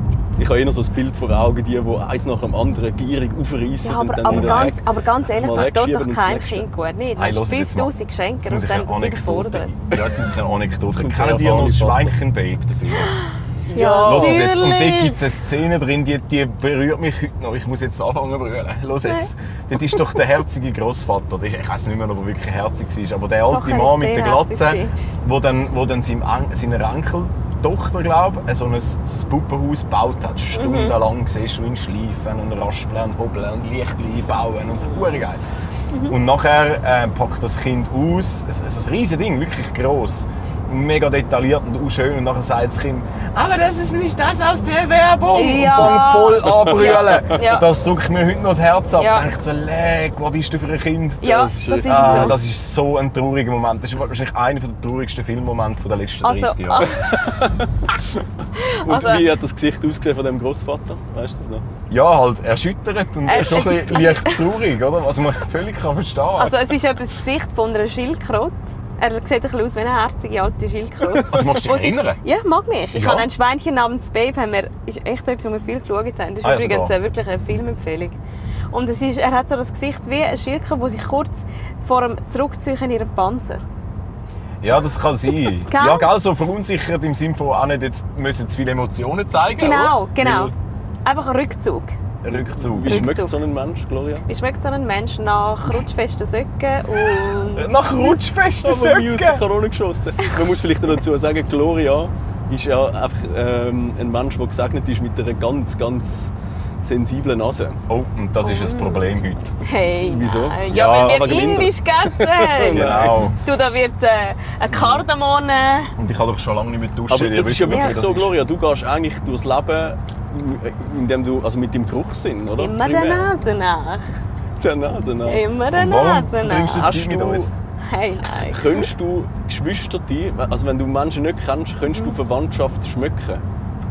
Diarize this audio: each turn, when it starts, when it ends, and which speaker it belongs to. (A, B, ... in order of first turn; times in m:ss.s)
0:00.4-0:06.7 A
0:03.8-0:09.7 B
0:04.2-0:04.8 C
0:07.2-0:13.1 C
0:09.9-0:10.2 A
0:10.9-0:12.1 A
0:13.0-0:15.3 B
0:13.7-0:14.5 A
0:14.0-0:35.4 C
0:19.0-0:19.3 B
0:23.5-0:24.9 B
0:30.5-0:31.0 B
0:36.1-0:51.2 C
0:45.3-0:47.6 B
0:45.9-0:47.4 A
0:49.0-0:49.2 B
0:51.2-0:52.4 B
0:51.2-0:52.4 A
0:51.8-0:56.9 C
0:56.2-0:57.0 B
0:56.8-0:57.8 A
0:58.6-0:59.3 B
0:58.8-1:01.6 A
1:01.9-1:06.6 C
1:03.2-1:04.4 B
1:06.4-1:18.2 B
1:11.2-1:12.2 C
1:12.9-1:13.3 C
1:16.4-1:16.9 C
1:18.7-1:23.6 B
1:24.6-1:30.5 C
1:25.6-1:26.1 B
1:29.6-1:30.5 B
1:31.0-1:31.9 B
1:32.2-1:33.1 C
1:32.3-1:34.2 A
1:32.8-1:33.4 B
1:34.3-1:38.2 B
1:37.5-1:39.4 C
1:38.6-1:47.8 A
1:47.9-1:49.5 C
1:48.4-1:55.9 B
1:50.0-1:53.3 A
1:50.7-1:51.7 C
1:52.7-1:53.4 C
1:56.0-1:58.4 C
1:57.1-2:03.3 A
1:57.7-1:58.0 B
2:02.6-2:04.1 B
2:04.6-2:05.4 A
2:05.2-2:06.9 B
2:05.7-2:07.5 C
2:06.7-2:07.5 A
2:07.8-2:08.8 B
2:08.4-2:13.4 A